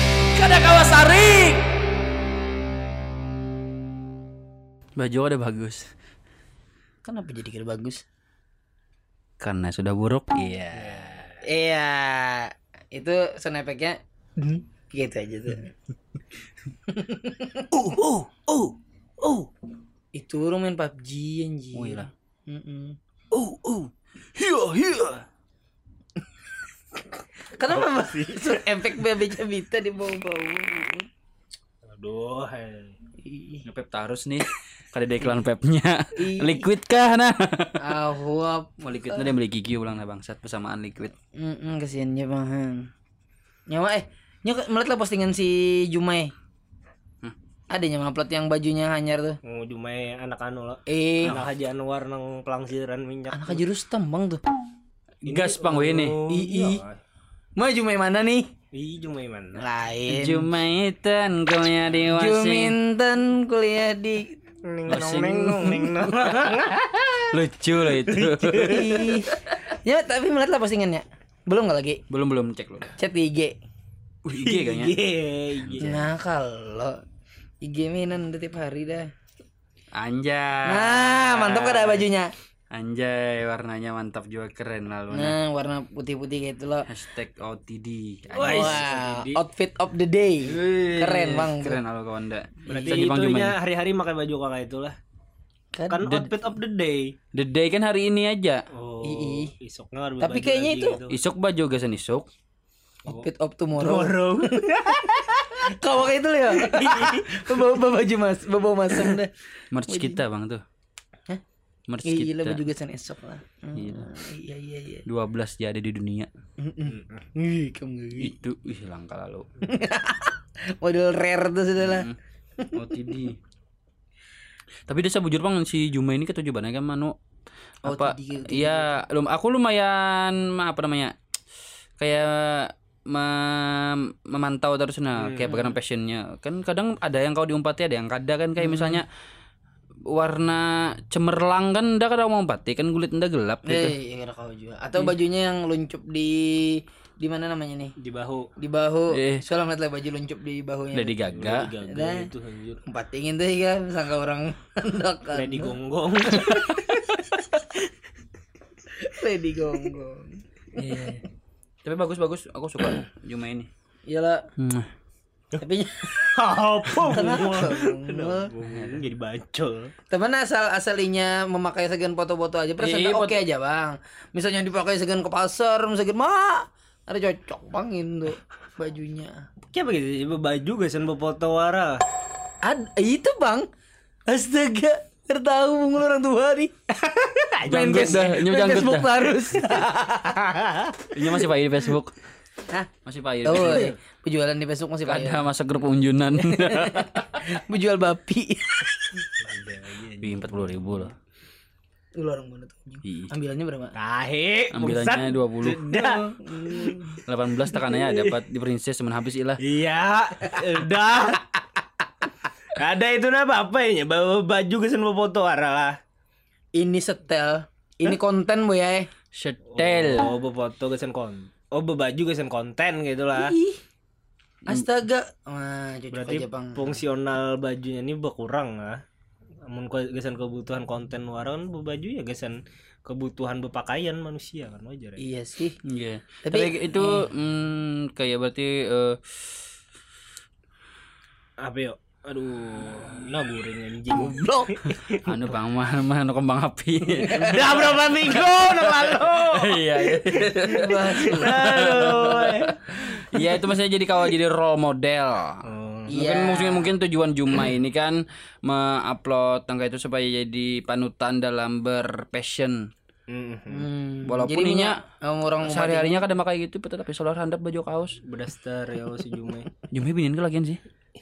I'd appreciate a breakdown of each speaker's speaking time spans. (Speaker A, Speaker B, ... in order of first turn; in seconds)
Speaker A: 0.3-1.7, 5.0-5.9, 9.4-11.3, 21.7-22.1, 23.3-25.2, 33.6-38.0, 38.8-41.1, 51.2-51.5, 55.2-56.2, 60.1-62.8, 64.9-66.6, 67.3-69.5, 72.1-72.9, 74.2-75.0, 75.7-76.0, 79.9-82.0, 82.7-85.4, 86.9-88.8, 90.5-93.6, 97.3-98.6, 101.1-102.3, 109.7-110.6, 111.9-112.6, 113.8-114.1, 115.1-116.3, 118.2-119.5, 121.8-122.1, 122.7-123.4, 124.9-127.2, 127.9-131.2, 132.0-139.1, 140.1-143.9, 149.1-149.4, 150.9-151.7, 160.8-161.2, 161.8-163.7, 164.6-164.9, 168.7-169.0, 172.8-173.4, 187.7-189.3, 191.1-192.2, 193.1-193.9, 195.1-197.4, 200.2-201.1, 203.1-203.3, 204.7-205.9, 207.2-209.6, 219.3-220.3, 235.8-239.6, 245.1-262.9, 264.3-265.0, 265.6-268.2, 269.9-270.8
Speaker B: 7.0-8.0, 11.4-15.7, 16.9-17.7, 20.1-23.0, 27.4-31.1, 33.2-33.6, 36.2-36.7, 37.8-39.3, 41.4-42.9, 43.7-46.3, 47.7-49.4, 50.9-51.4, 53.3-54.4, 56.3-56.8, 57.6-58.5, 59.6-60.5, 62.1-64.4, 68.7-72.0, 73.0-73.6, 75.8-77.0, 77.6-79.1, 80.7-82.3, 85.1-86.9, 88.4-91.8, 92.7-93.0, 95.8-96.2, 99.0-99.5, 100.2-101.0, 103.1-104.6, 105.6-109.3, 109.9-110.2, 112.0-115.0, 116.6-118.3, 119.6-122.8, 127.8-129.0, 138.6-139.0, 143.7-147.9, 148.6-151.3, 151.8-152.3, 152.8-155.8, 158.9-160.4, 164.1-164.5, 165.6-166.4, 166.9-168.5, 170.1-179.5, 182.7-183.7, 184.3-186.7, 187.7-190.1, 193.4-195.5, 196.4-199.2, 202.2-203.9, 205.9-207.2, 216.8-219.1, 223.3-223.8, 224.7-227.0, 235.2-235.8, 236.4-237.3, 244.1-244.8, 250.6-251.6, 256.1-256.9, 263.7-266.2
Speaker C: 10.7-11.4, 17.7-19.5, 27.7-28.7, 31.9-33.0, 49.4-53.6, 55.3-57.0, 58.7-59.6, 64.6-67.4, 68.0-69.1, 74.3-76.0, 88.3-89.4, 92.7-95.0, 95.9-97.2, 98.7-101.2, 103.1-105.7, 106.6-107.5, 116.9-117.2, 135.2-135.6, 148.0-148.5, 151.3-152.8, 155.3-156.8, 166.2-169.9, 179.7-182.0, 186.9-188.4, 189.5-191.2, 199.4-201.1, 204.0-207.0, 209.6-211.4, 212.7-216.0, 219.7-223.6, 226.1-229.0, 229.7-235.2, 241.6-245.2, 247.3-253.4, 255.7-256.2, 263.3-263.9, 268.2-269.7